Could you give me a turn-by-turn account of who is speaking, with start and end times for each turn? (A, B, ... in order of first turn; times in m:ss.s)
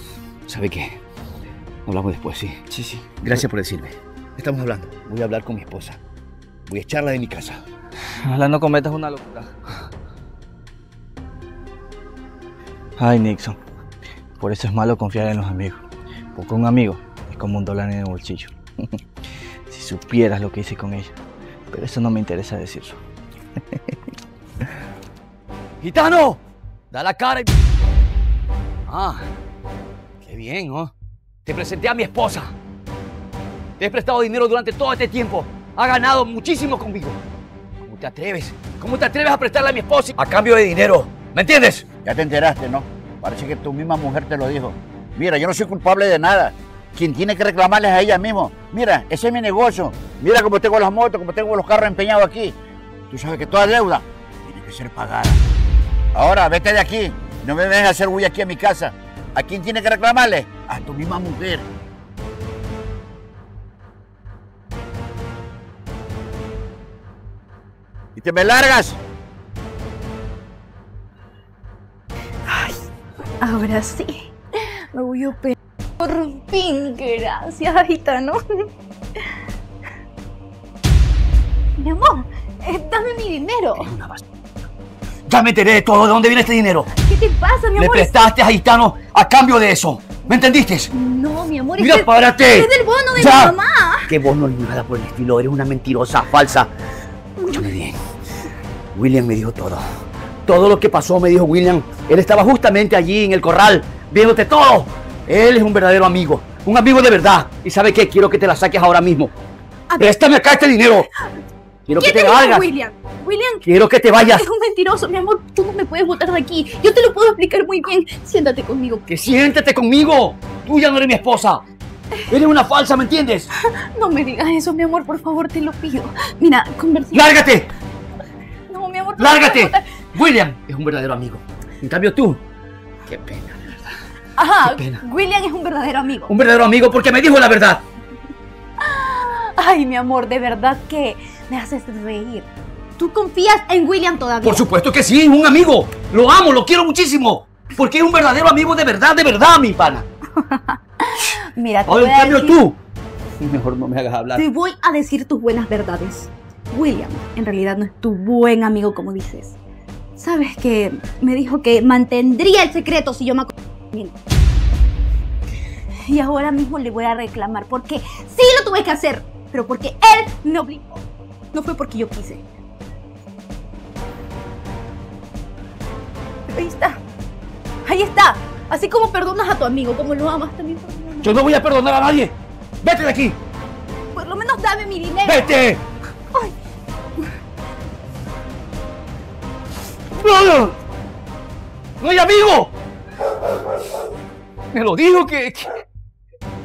0:00.5-0:01.0 A
0:01.9-0:02.6 A
0:02.7-0:03.1 B
0:03.2-0:06.0 A
0:06.7-0:07.6 A
0:08.2-0:09.5 B
0:13.0-0:13.6 B
0:14.4-0:19.0 B
0:19.7-0:21.2 B
0:21.7-0:23.0 B
0:25.8-0:26.4 A
0:26.9-0:27.5 A
0:28.9-0:29.3 A
0:30.2-0:30.9 A
0:31.4-0:32.6 A
0:33.8-0:37.2 A
0:37.8-0:41.9 A
0:42.0-0:52.6 C
0:53.1-0:55.4 C
0:56.2-1:01.7 C
1:08.2-1:09.0 C
1:12.5-1:12.8 D
1:13.4-1:14.3 D
1:14.9-1:18.4 D
1:21.8-1:23.9 D
1:23.8-1:24.2 A
1:25.3-1:26.9 A
1:26.9-1:28.3 D
1:27.8-1:30.9 A
1:30.9-1:34.2 D
1:31.8-1:33.6 A
1:34.1-1:36.7 A
1:37.5-1:38.0 A
1:38.9-1:39.9 A
1:40.5-1:49.3 A
1:49.9-1:50.2 D
1:50.0-1:51.1 A
1:51.9-1:52.7 A
1:52.0-1:53.6 D
1:53.6-1:54.4 A
1:54.2-1:59.0 D
1:59.1-2:01.6 A
2:02.3-2:03.5 A
2:04.0-2:07.3 D
2:07.1-2:07.7 A
2:08.7-2:09.9 D
2:09.2-2:12.4 A
2:13.1-2:13.8 A
2:14.4-2:16.3 D
2:14.6-2:15.0 A
2:16.3-2:17.8 A
2:18.8-2:24.7 D
2:24.4-2:30.0 A
2:30.4-2:32.6 D
2:31.9-2:32.8 A
2:33.4-2:34.4 A
2:34.4-2:39.6 D
2:40.2-2:44.1 D
2:46.1-2:52.4 D
2:56.5-2:57.0 D
2:57.9-3:01.4 D
3:01.2-3:03.4 A
3:04.2-3:05.5 D
3:05.2-3:05.8 A
3:10.1-3:10.8 A
3:12.0-3:12.7 A
3:14.7-3:15.7 A